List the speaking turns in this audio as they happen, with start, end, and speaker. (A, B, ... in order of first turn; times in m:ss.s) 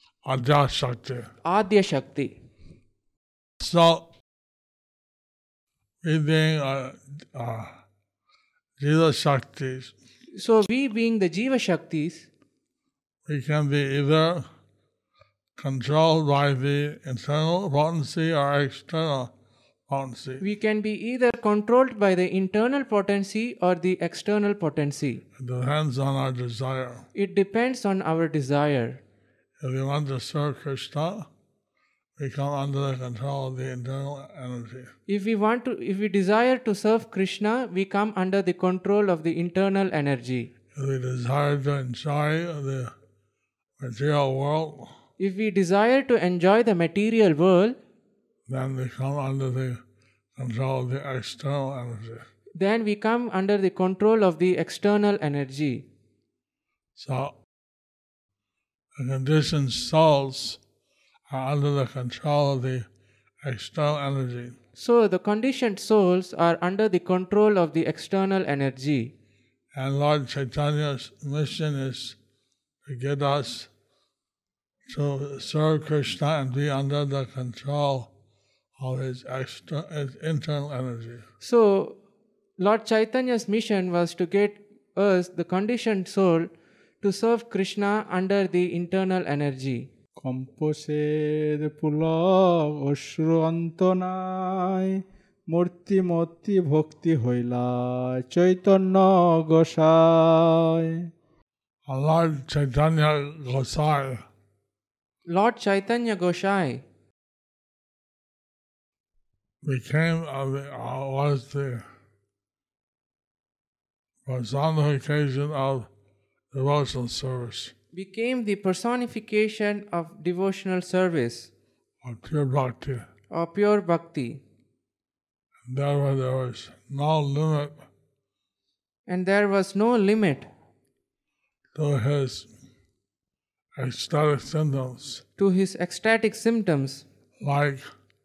0:00.2-0:01.3 A
0:01.4-0:02.4 B
0:03.6-0:04.1 A
0:06.0-0:07.7 A
0:08.8-0:09.9 A
0:10.3-0:12.3 B
0:13.2-0:14.4 A
0:15.6-0:19.3 A
0:19.9-0:20.4 A
0:20.4-0:25.2 B
0:25.4-0:27.0 A
0:27.1-0:29.0 B
0:29.6-0:31.3 A
0:32.2-0:34.9 A
0:35.1-0:40.5 B
0:40.7-0:42.9 A
0:43.8-0:44.9 A
0:45.2-0:47.8 B
0:48.5-0:49.8 A
0:50.4-0:52.2 A
0:52.6-0:55.9 B
0:57.0-0:57.3 A
0:59.0-1:00.6 A
1:01.3-1:02.9 A
1:03.4-1:04.6 A
1:04.8-1:09.1 B
1:09.7-1:12.2 A
1:12.8-1:13.7 A
1:14.9-1:18.1 A
1:18.8-1:21.2 A
1:21.4-1:22.0 B
1:22.6-1:26.5 B
1:27.0-1:29.9 B
1:30.2-1:41.0 C
1:41.9-1:44.2 A
1:45.3-1:46.8 B
1:49.6-1:51.8 A
1:54.2-1:55.9 A
1:56.5-1:57.7 A
1:57.9-2:01.5 B
2:02.0-2:03.0 A
2:03.3-2:04.4 B
2:05.7-2:07.8 A
2:09.1-2:10.5 B
2:11.7-2:12.5 A
2:13.8-2:15.2 A
2:15.4-2:17.0 B
2:17.4-2:17.8 A